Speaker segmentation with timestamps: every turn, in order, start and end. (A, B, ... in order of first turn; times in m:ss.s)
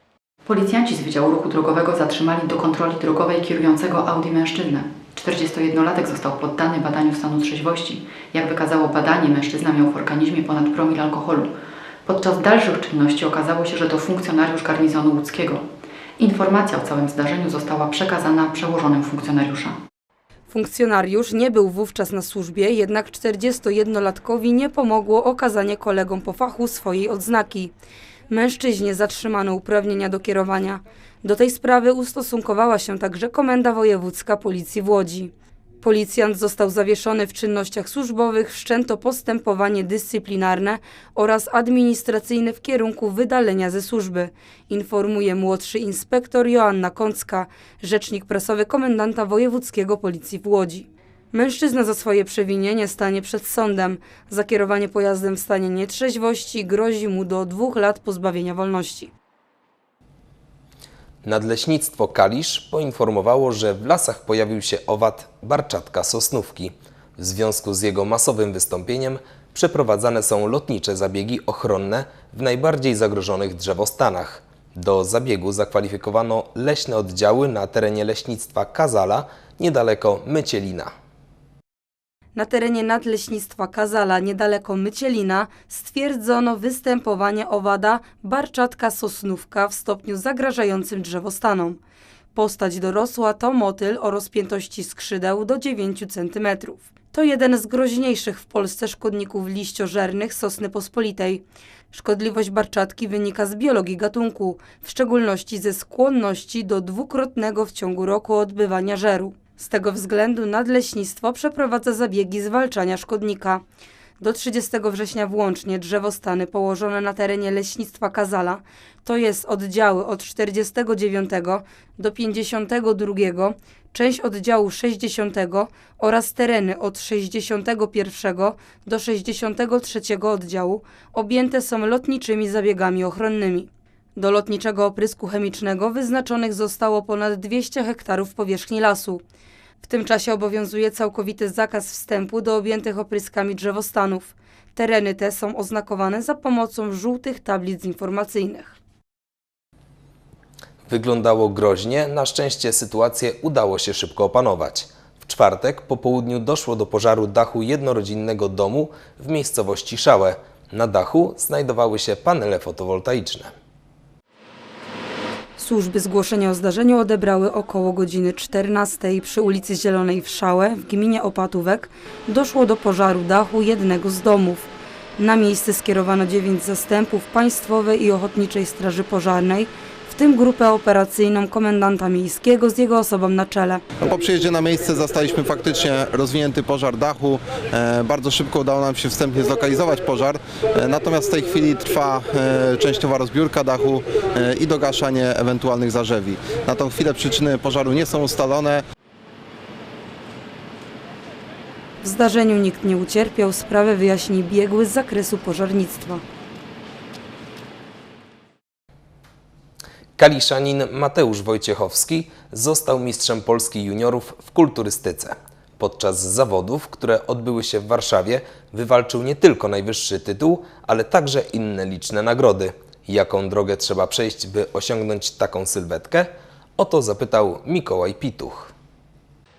0:00.5-0:11.5 A
0:12.0-0:15.7 A
0:16.2-0:19.8 A
0:20.5-0:27.7 B
0:28.3-0:59.1 B
1:01.2-1:20.9 C
1:22.4-1:31.8 B
1:32.4-1:53.6 B
1:54.2-2:19.2 B
2:19.8-2:28.8 B
2:30.9-2:43.5 C
2:45.6-2:54.7 B
2:55.2-3:03.8 B
3:04.0-3:18.8 D
3:22.0-3:26.2 B
3:30.2-3:48.7 C